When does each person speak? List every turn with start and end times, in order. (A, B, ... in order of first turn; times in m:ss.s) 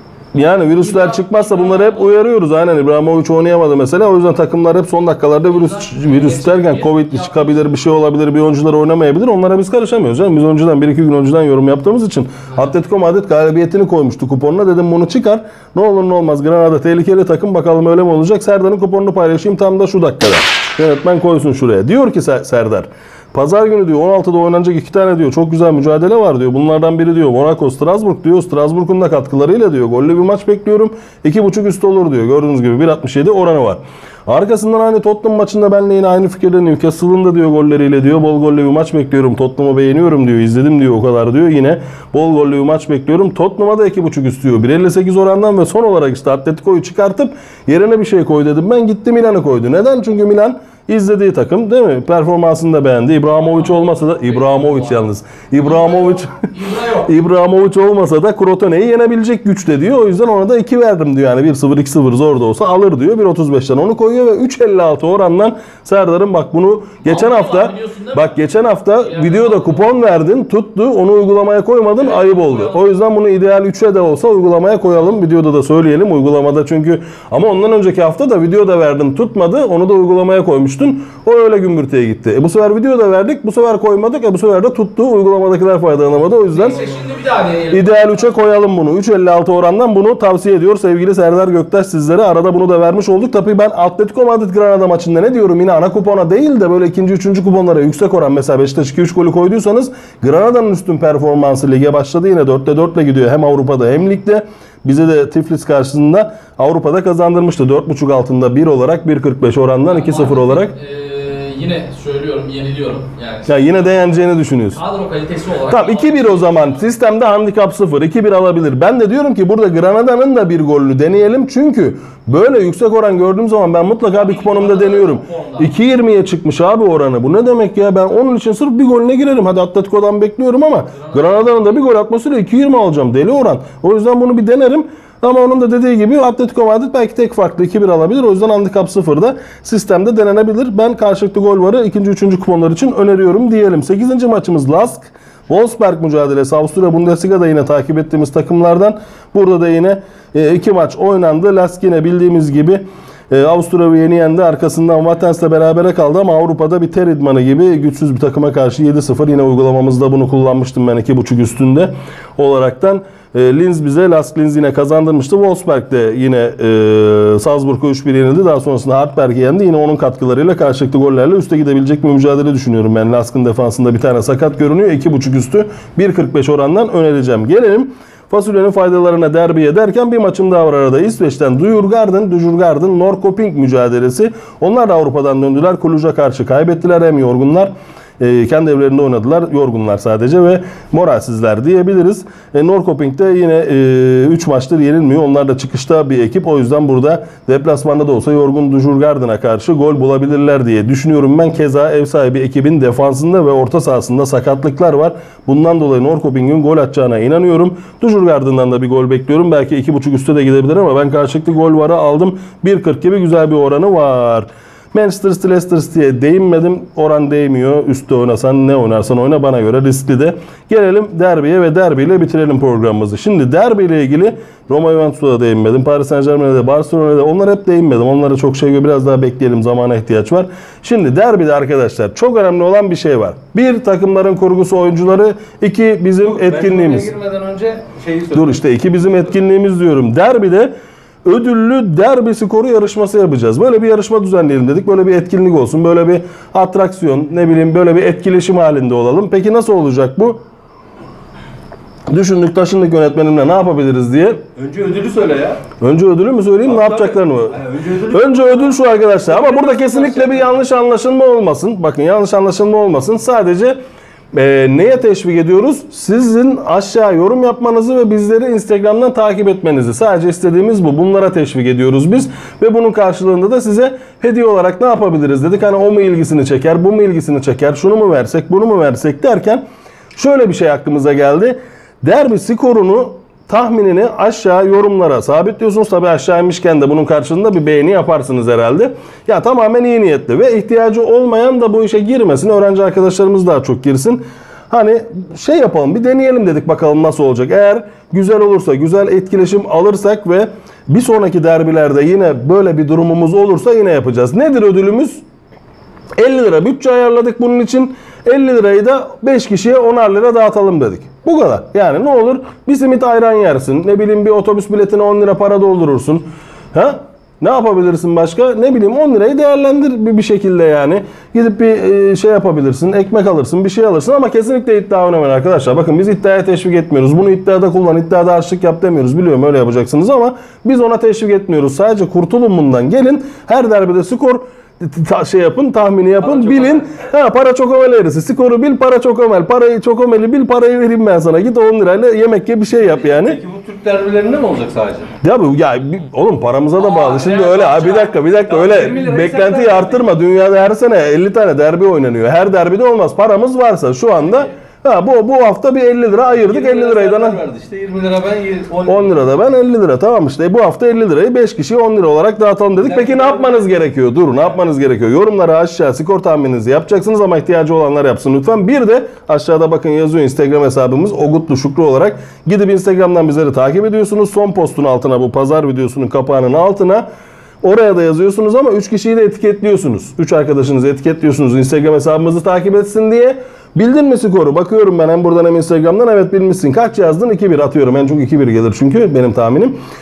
0:00.3-0:56.5 A
0:00.7-0:02.1 B
0:05.5-0:07.6 B
0:53.4-0:55.1 B
0:55.6-0:57.1 B
0:57.0-1:26.9 A
1:07.0-1:08.4 B
1:09.0-1:09.8 B
1:12.0-1:12.8 B
1:26.5-1:28.4 B
1:27.7-1:50.7 A
1:49.9-1:53.9 B
1:53.5-1:54.8 A
1:54.8-1:56.8 B
1:55.7-3:57.1 A
2:04.1-2:05.7 B
2:11.0-2:11.8 B
3:56.2-3:58.6 C
3:58.3-4:00.7 A
4:01.2-4:10.4 A
4:12.1-4:14.4 A
4:14.5-4:15.6 C
4:15.8-4:23.8 A
4:16.6-4:20.6 C
4:24.3-4:39.6 A
4:40.1-5:05.2 A
5:06.2-5:43.4 A
5:36.2-5:36.9 C
5:42.7-5:45.1 C
5:45.2-5:57.4 A
5:46.8-5:48.2 B
5:48.5-5:50.0 C
5:56.2-5:59.3 C
5:58.8-6:17.0 A
6:02.8-6:03.8 C
6:17.6-6:29.8 A